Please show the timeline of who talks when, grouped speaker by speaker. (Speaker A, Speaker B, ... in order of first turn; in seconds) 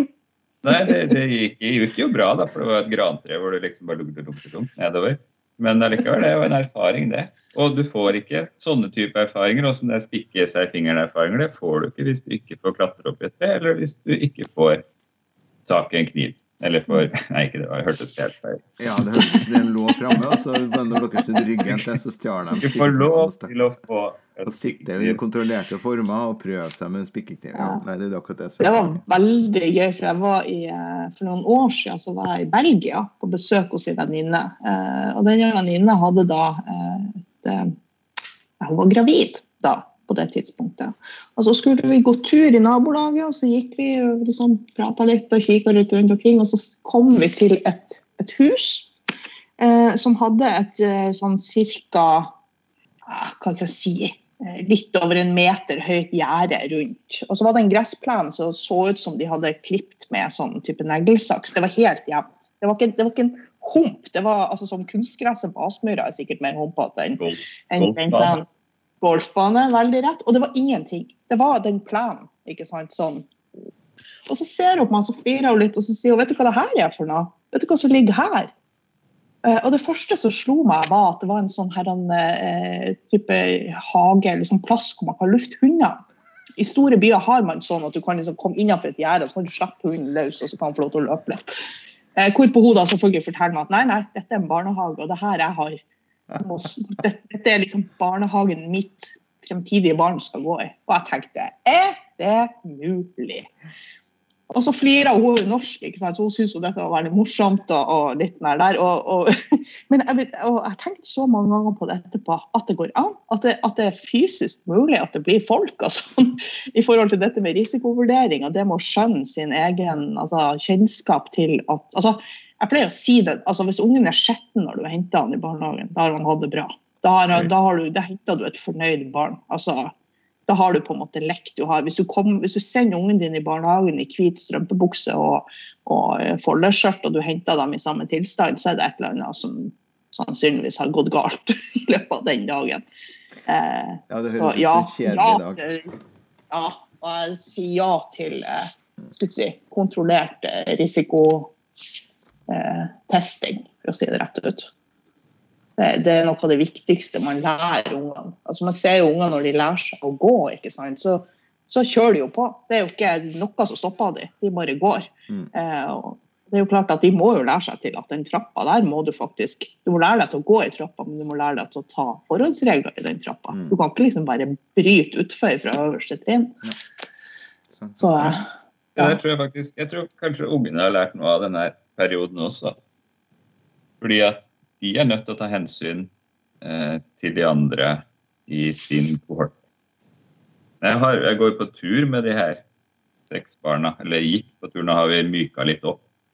Speaker A: 0.6-14.8, 15.6-18.6, 19.1-19.5, 22.5-25.2, 67.2-68.4, 179.0-182.8, 184.0-186.1, 186.6-189.6, 190.8-192.6, 193.3-196.0
Speaker B: 18.8-23.5, 24.4-29.0, 144.1-145.6, 173.5-173.8, 177.7-178.3
Speaker C: 27.5-27.8, 28.6-37.7, 38.6-48.9, 49.6-52.3, 53.1-68.5, 69.0-73.3, 74.3-78.5, 79.4-86.0, 86.6-91.5, 92.2-95.8, 96.4-103.5, 104.5-129.9, 130.5-142.8, 143.5-145.9, 146.5-151.5, 152.5-154.7, 155.8-176.6, 177.9-179.2